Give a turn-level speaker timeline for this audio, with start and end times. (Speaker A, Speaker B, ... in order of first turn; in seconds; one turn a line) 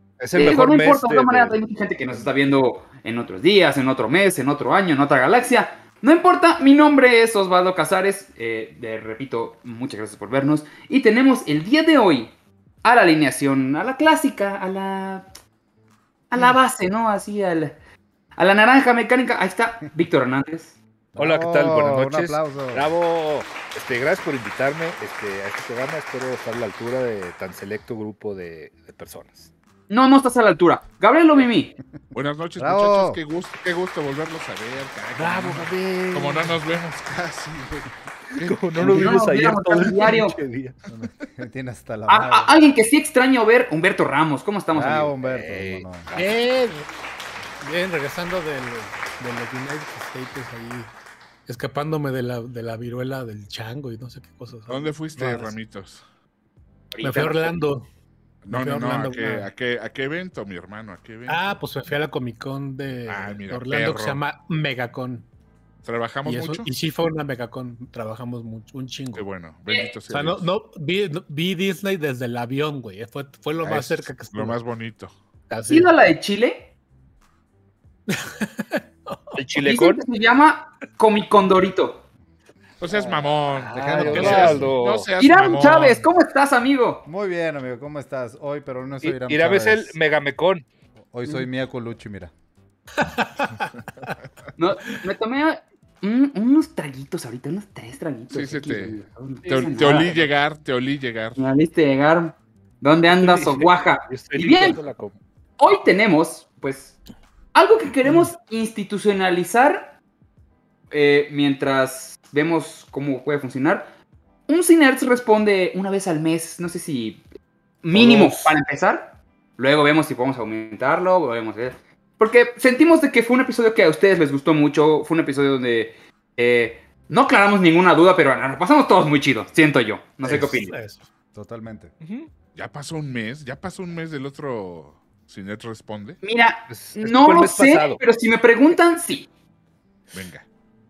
Speaker A: 0.2-2.3
Speaker B: 0.3-12.3
Speaker B: 12.8-15.3
Speaker B: 16.3-17.8
Speaker B: 18.4-20.8
Speaker C: 21.1-22.9
Speaker A: 21.2-29.5
Speaker B: 29.9-31.8
Speaker D: 32.1-39.2
Speaker C: 32.6-33.2
Speaker A: 35.2-36.5
Speaker A: 38.3-40.8
Speaker B: 38.8-40.4
Speaker C: 40.9-42.5
Speaker B: 42.1-45.1
Speaker C: 44.7-46.1
Speaker A: 45.2-46.4
Speaker E: 46.1-46.9
Speaker E: 47.6-50.9
Speaker E: 51.5-55.5
Speaker D: 54.7-56.0
Speaker B: 56.9-57.6
Speaker E: 57.0-57.9
Speaker D: 58.4-61.6
Speaker E: 58.5-59.5
Speaker E: 61.3-65.3
Speaker D: 63.1-64.2
Speaker D: 65.8-66.7
Speaker E: 66.2-69.3
Speaker D: 69.2-70.5
Speaker B: 69.7-69.9
Speaker E: 70.1-74.6
Speaker D: 73.6-75.1
Speaker E: 75.5-75.9
Speaker B: 75.7-76.7
Speaker E: 78.1-79.4
Speaker A: 79.3-80.0
Speaker B: 79.6-82.0
Speaker D: 82.8-86.1
Speaker C: 82.9-84.8
Speaker A: 83.5-85.1
Speaker B: 85.2-87.1
Speaker C: 87.1-90.0
Speaker A: 89.0-90.7
Speaker C: 91.0-92.3
Speaker E: 93.0-94.2
Speaker B: 94.6-100.2
Speaker D: 98.3-101.4
Speaker A: 99.8-100.2
Speaker B: 101.4-104.8
Speaker A: 103.1-105.2
Speaker B: 105.6-107.0
Speaker B: 107.5-110.0
Speaker B: 110.9-113.9
Speaker B: 114.5-117.2
Speaker B: 117.8-130.8
Speaker A: 117.9-118.5
Speaker E: 130.2-131.1
Speaker C: 131.3-131.9
Speaker A: 132.0-132.3
Speaker D: 132.6-136.2
Speaker B: 136.2-139.3
Speaker A: 136.7-138.0
Speaker D: 140.1-140.4